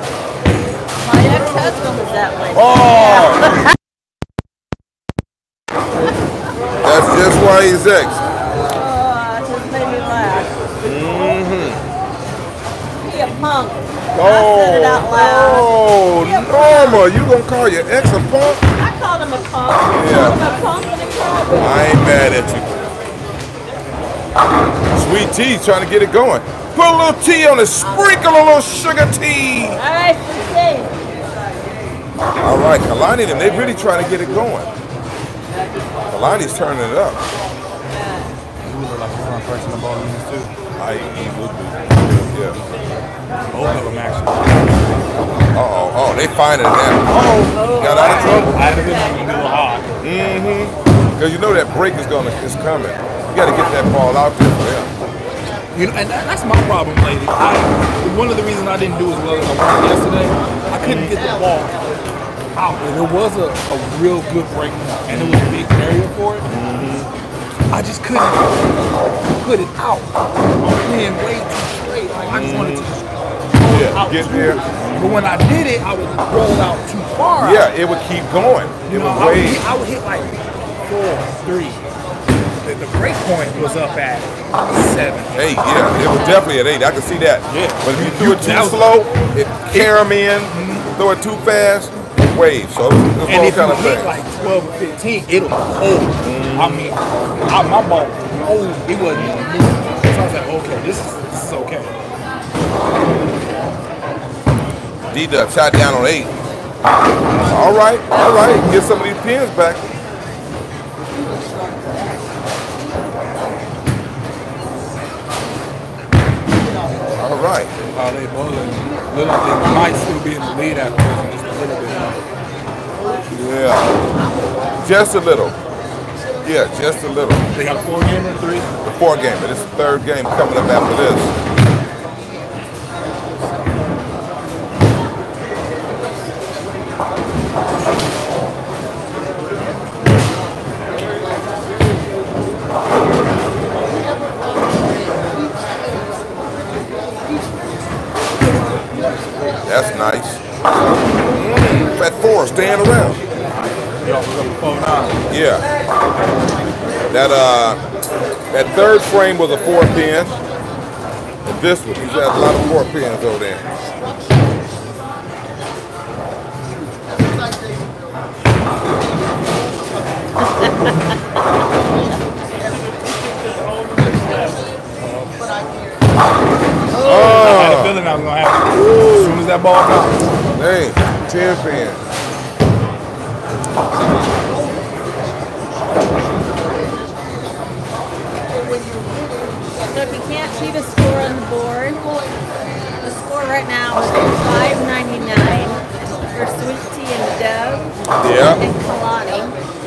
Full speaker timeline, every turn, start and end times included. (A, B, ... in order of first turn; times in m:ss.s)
0:01.0-0:03.6 A
0:02.5-0:03.6 B
0:06.8-0:08.2 B
0:08.4-0:10.5 A
0:10.8-0:11.8 B
0:13.0-0:17.0 A
0:14.1-0:18.6 B
0:18.8-0:21.8 A
0:20.0-0:20.4 B
0:21.6-0:22.8 B
0:24.9-0:29.8 B
0:27.8-0:28.2 A
0:29.8-0:30.9 A
0:32.4-0:34.7 B
0:36.1-0:37.2 B
0:37.9-0:38.3 A
0:38.6-0:40.5 C
0:40.8-0:42.6 B
0:43.5-0:45.1 C
0:45.5-0:48.5 B
0:47.4-0:49.2 A
0:47.9-0:49.9 C
0:50.0-0:54.9 B
0:55.7-1:01.9 C
1:00.8-1:01.2 B
1:02.6-1:06.5 C
1:05.1-1:05.5 B
1:06.4-1:07.1 B
1:07.7-1:08.5 C
1:09.4-1:17.7 C
1:12.3-1:12.9 B
1:13.6-1:15.2 B
1:17.4-1:19.7 B
1:18.8-1:21.8 C
1:22.6-1:25.5 C
1:25.3-1:34.2 B
1:27.5-1:28.9 C
1:29.7-1:30.9 C
1:33.2-1:41.9 C
1:36.2-1:36.9 B
1:39.1-1:39.4 B
1:45.1-1:46.3 B
1:47.5-1:49.8 B
1:48.1-1:48.9 A
1:57.2-1:57.7 B
1:57.9-2:02.2 C
2:03.3-2:04.0 B
2:04.8-2:05.6 B
2:06.4-2:07.4 B
2:07.5-2:08.7 C
2:08.8-2:11.3 B
2:29.6-2:30.4 B
2:31.3-2:33.2 B
2:33.5-2:35.3 C
2:35.3-2:35.6 B
2:37.1-2:37.8 B
2:38.5-2:40.3 B
2:41.4-2:43.6 B
2:57.0-3:00.2 C
2:57.0-2:58.0 B
2:58.7-2:59.4 B
3:00.5-3:02.0 B
3:09.9-3:12.0 A
3:13.0-3:17.9 A
3:18.2-3:18.6 B
3:18.6-3:19.5 A